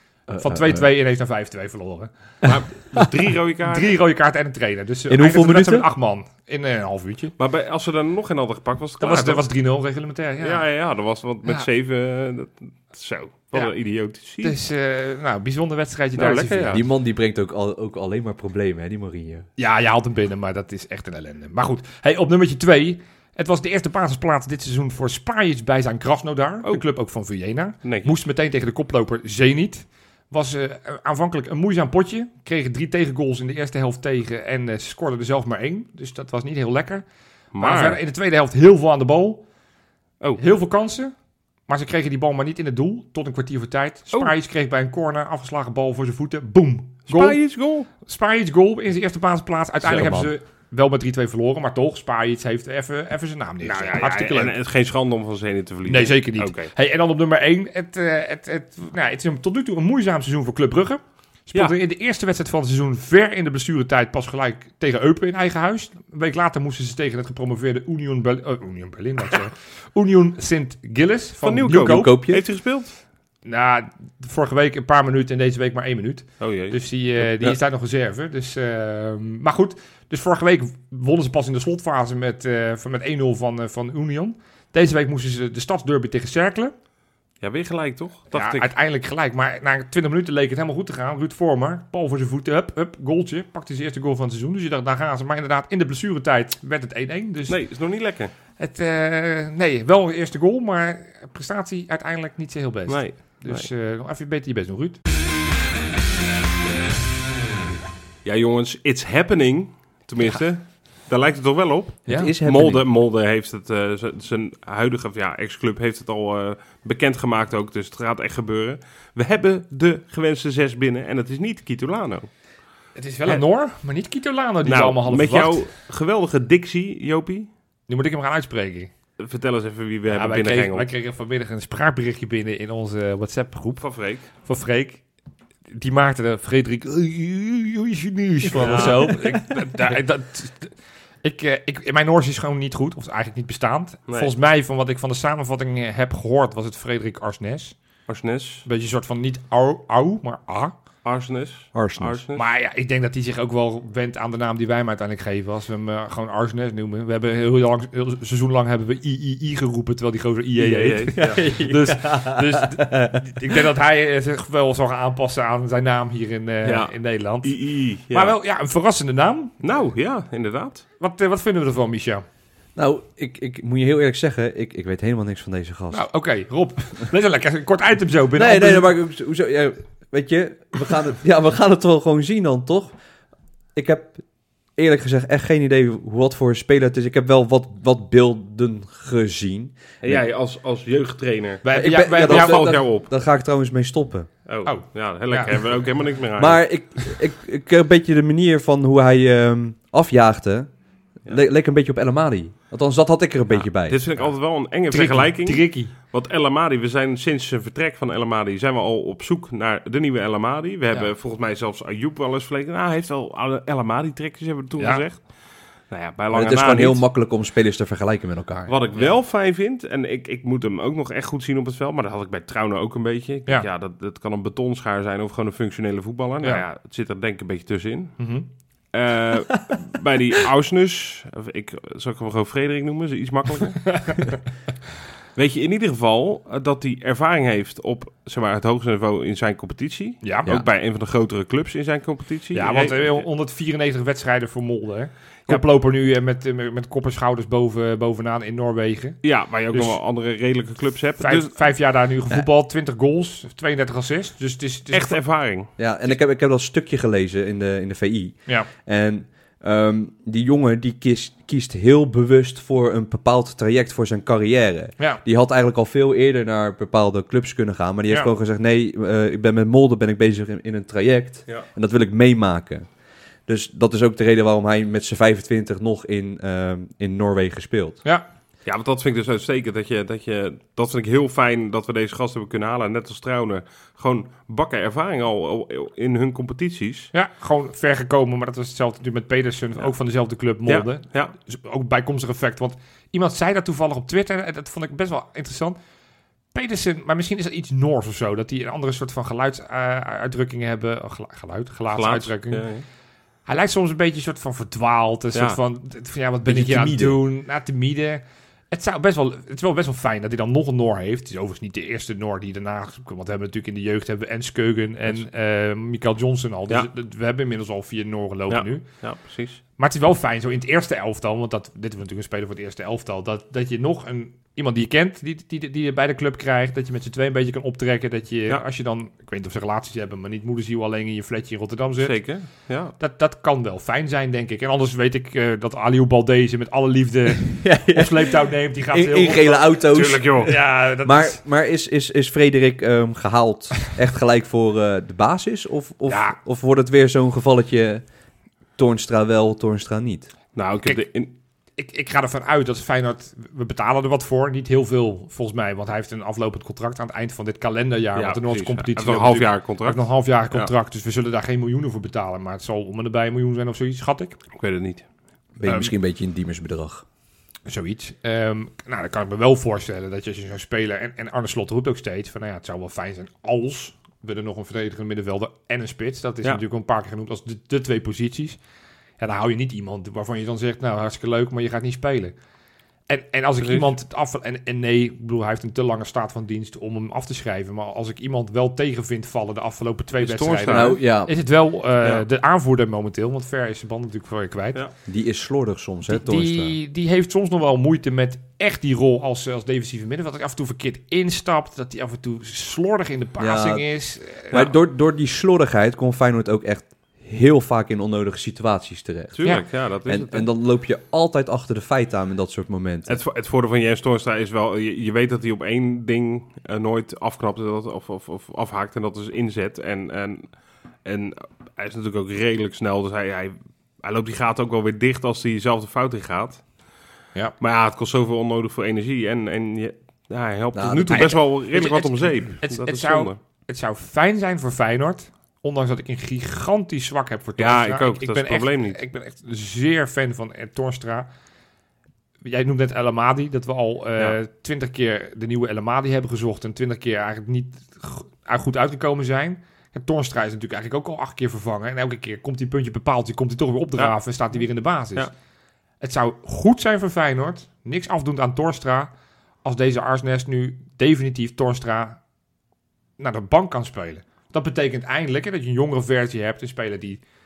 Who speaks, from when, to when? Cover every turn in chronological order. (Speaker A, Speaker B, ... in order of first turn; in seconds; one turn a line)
Speaker A: 0.3-0.8
Speaker B: 0.3-2.7
Speaker A: 2.5-2.9
Speaker C: 2.5-4.0
Speaker B: 3.6-7.3
Speaker A: 5.1-5.9
Speaker C: 7.4-9.5
Speaker B: 9.0-10.6
Speaker C: 10.4-14.6
Speaker B: 14.4-16.8
Speaker C: 16.2-16.8
Speaker A: 16.7-19.5
Speaker B: 19.6-39.5
Speaker C: 27.8-28.1
Speaker C: 37.5-38.0
Speaker B: 40.4-41.1
Speaker B: 41.7-54.5
Speaker C: 47.1-47.9
Speaker A: 49.8-50.3
Speaker C: 53.6-56.7
Speaker B: 55.9-72.1
Speaker C: 71.4-73.0
Speaker A: 71.8-72.4
Speaker B: 73.4-86.7
Speaker C: 76.4-76.8
Speaker A: 77.2-77.6
Speaker C: 87.4-88.7
Speaker B: 88.3-97.8
Speaker C: 97.5-98.3
Speaker B: 98.6-105.0
Speaker C: 102.9-103.7
Speaker C: 108.2-122.4
Speaker B: 112.1-112.3
Speaker A: 112.1-112.8
Speaker B: 122.9-125.6
Speaker C: 124.6-127.5
Speaker B: 127.9-128.9
Speaker C: 129.2-130.9
Speaker B: 130.1-135.0
Speaker C: 133.8-134.2
Speaker B: 135.7-147.8
Speaker C: 138.5-139.2
Speaker C: 148.1-148.7
Speaker B: 148.6-150.7
Speaker C: 151.0-152.4
Speaker A: 151.7-152.2
Speaker B: 152.3-169.6
Speaker C: 160.6-161.5
Speaker A: 161.2-163.1
Speaker C: 166.6-168.3
Speaker C: 169.6-170.8
Speaker B: 171.0-172.2
Speaker A: 172.7-176.1
Speaker B: 175.9-178.9
Speaker A: 178.4-182.9
Speaker A: 183.7-190.2
Speaker C: 190.0-193.1
Speaker B: 191.6-192.7
Speaker A: 191.7-194.3
Speaker C: 194.4-196.6
Speaker B: 194.6-196.0
Speaker A: 196.4-204.1
Speaker C: 203.5-217.0
Speaker B: 204.1-205.9
Speaker A: 216.3-218.7
Speaker C: 218.7-228.4
Speaker B: 228.2-228.5
Speaker C: 228.9-234.1
Speaker B: 233.9-234.4
Speaker C: 235.3-243.3
Speaker B: 240.2-240.5
Speaker B: 242.5-250.0
Speaker C: 249.2-251.7
Speaker B: 251.2-255.2
Speaker C: 254.9-255.7
Speaker A: 255.8-272.9
Speaker A: 273.4-278.0
Speaker C: 278.6-287.1
Speaker B: 287.1-295.8
Speaker C: 289.8-291.3
Speaker B: 296.5-302.8
Speaker C: 301.9-302.9
Speaker B: 303.4-318.9
Speaker C: 305.3-305.6
Speaker A: 306.4-307.2
Speaker C: 318.5-319.6
Speaker B: 319.8-341.4
Speaker C: 332.0-332.9
Speaker A: 337.6-348.0
Speaker C: 339.9-340.6
Speaker B: 346.1-346.4
Speaker A: 348.8-350.3
Speaker C: 350.5-351.3
Speaker B: 351.8-364.4
Speaker C: 358.1-360.7
Speaker C: 364.5-365.1
Speaker A: 365.6-367.0
Speaker B: 365.6-365.9
Speaker B: 367.6-378.6
Speaker B: 379.2-382.3
Speaker B: 383.1-394.8
Speaker C: 383.6-383.9
Speaker C: 390.2-391.0
Speaker A: 390.7-391.3
Speaker A: 395.1-396.7
Speaker B: 396.1-404.7
Speaker A: 403.4-413.2
Speaker C: 409.3-410.4
Speaker C: 413.1-426.7
Speaker C: 427.6-433.4
Speaker A: 430.7-431.3
Speaker B: 431.1-441.3
Speaker C: 437.6-439.0
Speaker B: 442.4-455.3
Speaker C: 454.0-454.6
Speaker B: 456.0-459.1
Speaker B: 459.6-462.2
Speaker B: 463.2-467.2